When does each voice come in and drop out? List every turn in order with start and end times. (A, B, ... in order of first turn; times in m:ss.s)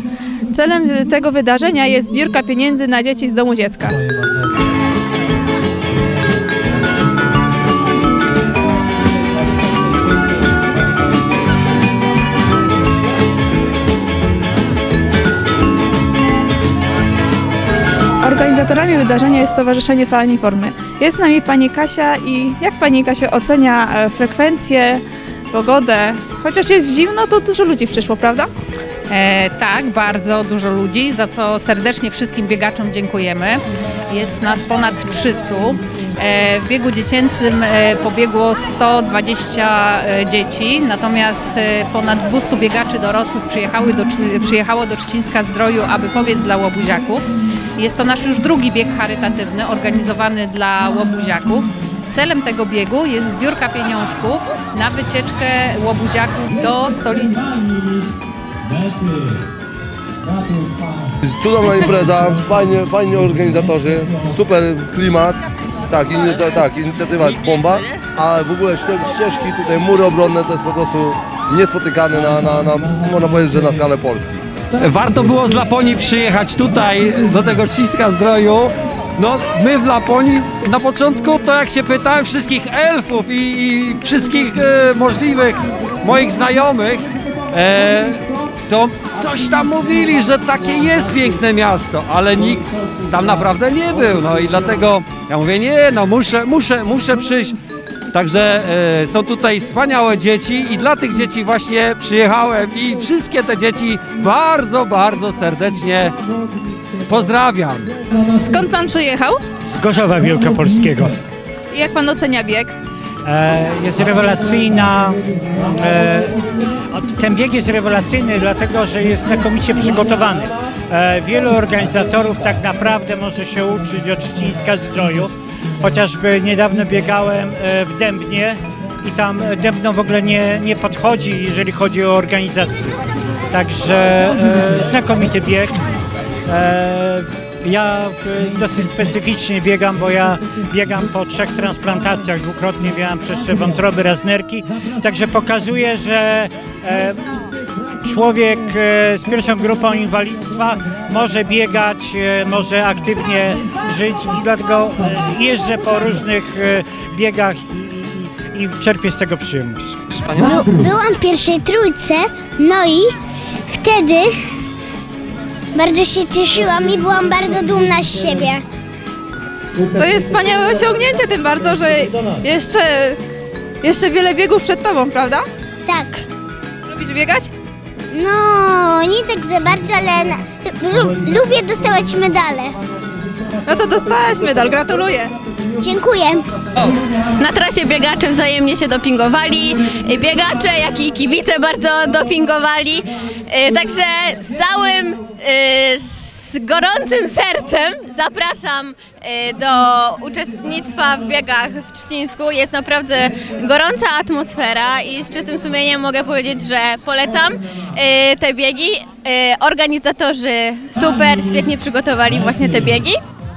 0:00.5-0:04.0 A
0:18.2-0:28.5 A
0:29.1-0:57.4 B
0:57.5-0:58.1 C
0:58.6-0:59.4 C
1:00.2-1:01.2 C
1:01.2-1:14.4 D
1:14.8-1:37.6 C
1:38.1-1:46.2 C
1:47.1-1:47.9 C
1:48.4-1:49.4 A
1:49.7-1:51.2 E
1:51.7-1:52.8 A
1:53.2-2:13.0 E
2:13.5-2:15.8 E
2:16.5-2:27.3 E
2:28.0-2:40.0 E
2:40.6-2:43.1 F
2:43.7-2:44.3 F
2:45.8-2:48.6 F
2:49.8-2:53.2 A
2:53.8-2:55.5 A
2:55.9-2:56.2 F
2:56.9-2:57.5 A
2:58.1-3:02.8 F
3:03.7-3:05.3 A
3:05.8-3:06.4 F
3:07.4-3:33.2 G
3:32.3-3:33.0 C